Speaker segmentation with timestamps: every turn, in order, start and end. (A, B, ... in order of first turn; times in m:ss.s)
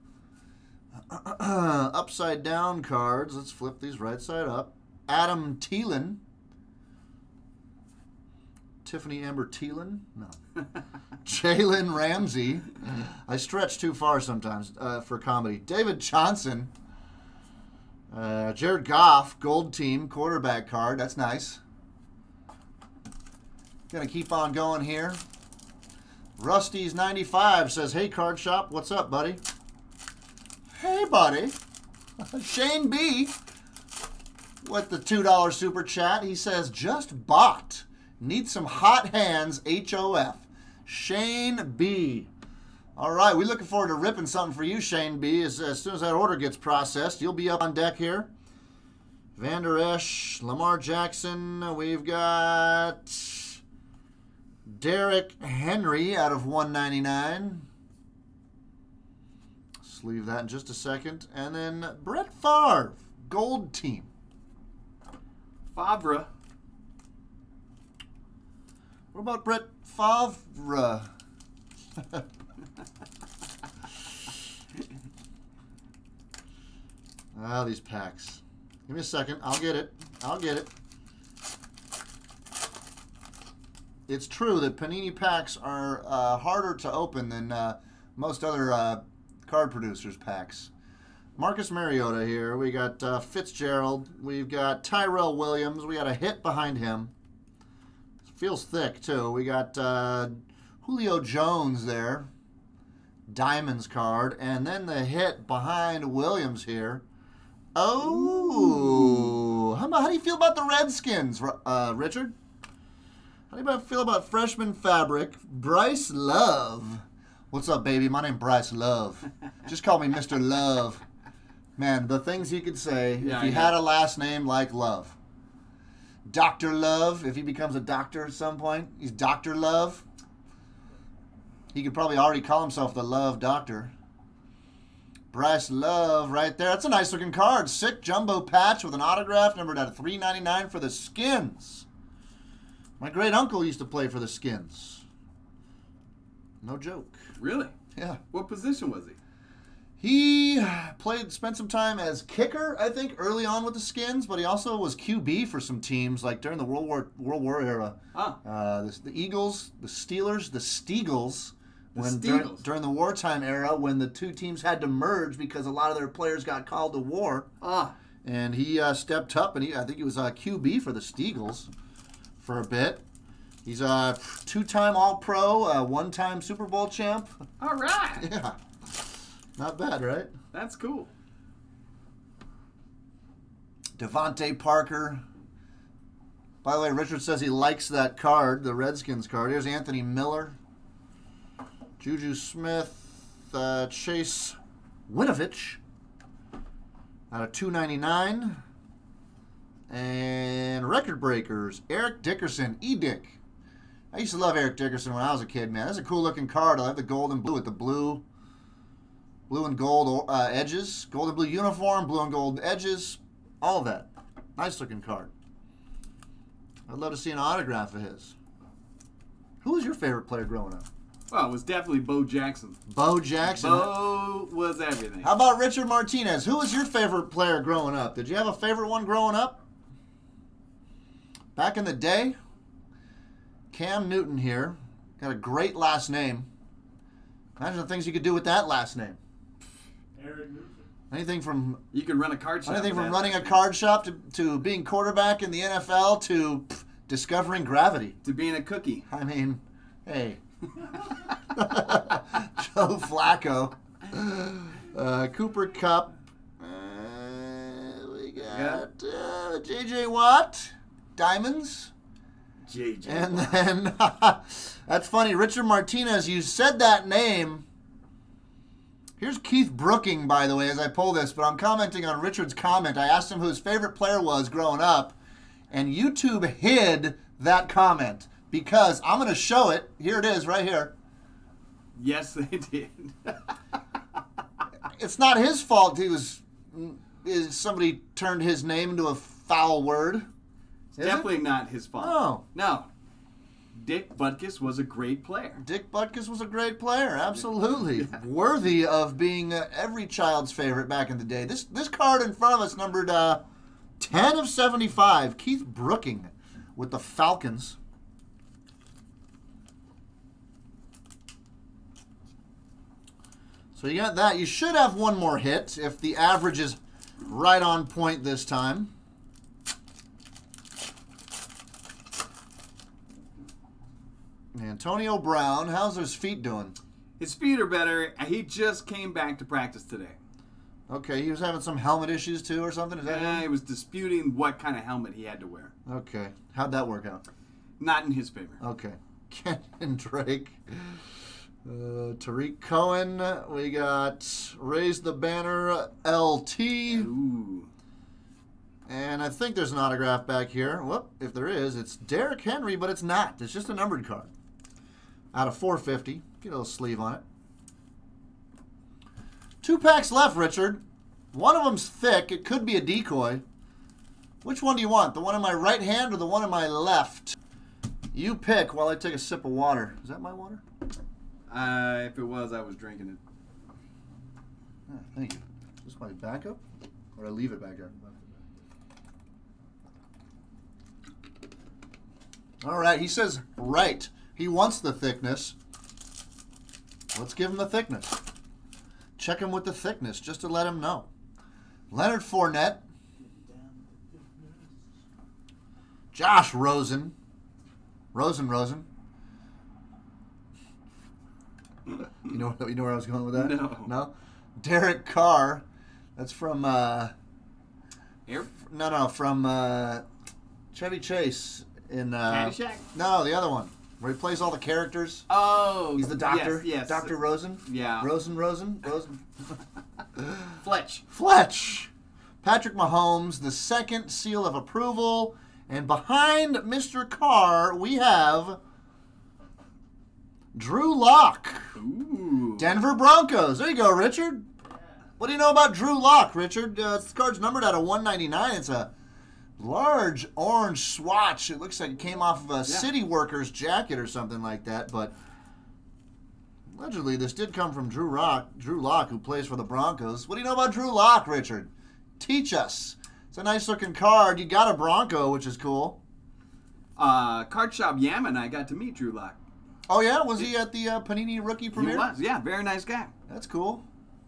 0:01.1-0:06.2 A
0:08.8-0:10.4 A
0:11.2-0:16.7 A
0:18.1-0:21.6 A
0:23.9-0:25.2 A
0:26.4-0:29.4 A
0:30.8-0:31.6 A
0:32.2-0:33.3 A
0:34.6-0:42.3 A
0:43.0-0:48.3 A
0:49.4-0:53.6 A
0:54.7-0:57.6 A
0:59.8-1:04.1 A
1:05.7-1:06.3 B
1:09.1-1:11.1 A
1:12.0-1:12.2 A
1:17.3-1:20.7 A
1:24.1-1:30.7 A
1:31.4-1:37.1 A
1:38.3-1:42.3 A
1:43.3-1:47.0 A
1:47.7-1:52.3 A
1:48.1-1:49.3 B
1:53.5-2:01.0 A
2:01.8-2:05.2 A
2:03.2-2:03.8 B
2:06.3-2:10.0 A
2:11.7-2:13.9 A
2:15.3-2:21.9 A
2:23.0-2:25.0 A
2:26.6-2:27.2 A
2:27.4-2:27.7 B
2:27.9-2:28.2 A
2:28.3-2:29.2 B
2:30.0-2:47.5 A
2:38.1-2:38.4 B
2:42.0-2:42.6 B
2:47.6-2:47.9 B
2:48.2-2:51.7 A
2:52.4-2:53.0 A
2:53.6-2:57.3 A
2:57.6-2:58.3 B
2:58.2-2:58.6 A
2:59.6-3:00.3 A
3:00.5-3:01.1 B
3:04.0-3:05.2 A
3:06.6-3:10.6 A
3:12.0-3:15.8 A
3:17.3-3:18.6 A
3:19.9-3:23.4 A
3:24.1-3:28.2 A
3:29.5-3:35.3 A
3:36.9-3:38.3 A
3:39.6-3:40.9 A
3:41.3-3:42.8 B
3:42.9-3:44.0 A
3:43.4-3:45.3 B
3:45.2-3:49.6 A
3:51.6-3:52.4 A
3:53.7-3:56.5 A
3:57.6-3:59.2 A
4:00.2-4:00.9 C
4:01.1-4:01.8 A
4:01.9-4:03.6 B
4:02.6-4:08.2 A
4:08.2-4:09.0 B
4:09.1-4:21.9 A
4:18.5-4:18.8 B
4:22.6-4:23.6 B
4:23.0-4:27.6 A
4:29.2-4:35.2 A
4:35.7-4:40.9 A
4:41.9-4:43.7 B
4:44.9-4:50.3 A
4:50.9-4:52.9 B
4:51.0-4:51.3 A
4:52.0-4:52.4 A
4:53.7-4:55.6 B
4:55.6-5:03.4 A
4:57.9-4:58.2 B
5:04.0-5:07.8 A
5:13.7-5:18.9 A
5:24.5-5:26.8 A
5:27.2-5:30.2 B
5:30.9-5:33.4 A
5:33.0-5:35.7 B
5:35.9-5:37.2 A
5:37.8-5:38.6 B
5:38.6-5:41.0 A
5:41.6-5:47.1 A
5:46.9-5:47.7 B
5:48.9-5:54.3 A
5:55.3-5:57.2 A
5:59.6-6:00.8 A
6:01.3-6:03.4 A
6:04.4-6:07.4 A
6:08.1-6:10.6 A
6:11.5-6:13.2 B
6:14.9-6:16.6 A
6:17.2-6:17.9 A
6:17.9-6:18.4 C
6:22.6-6:25.6 A
6:27.1-6:28.2 A
6:29.2-6:31.1 A
6:31.9-6:32.8 A
6:33.2-6:34.7 C
6:36.1-6:37.1 A
6:38.1-6:38.9 A
6:42.2-6:45.6 A
6:43.3-6:43.9 B
6:46.2-6:47.1 A
6:48.5-6:50.0 A
6:50.7-6:55.3 A
6:52.3-6:52.9 B
6:55.3-6:58.1 B
6:55.9-6:59.3 A
7:00.1-7:00.6 A
7:00.6-7:01.0 B
7:01.1-7:01.9 A
7:02.4-7:08.6 A
7:10.5-7:11.8 A
7:11.7-7:12.7 B
7:12.6-7:14.4 A
7:15.2-7:18.9 A
7:19.6-7:25.1 A
7:26.7-7:36.0 A
7:37.0-7:39.4 B
7:39.9-7:42.1 A
7:41.7-7:43.1 B
7:43.3-7:43.8 A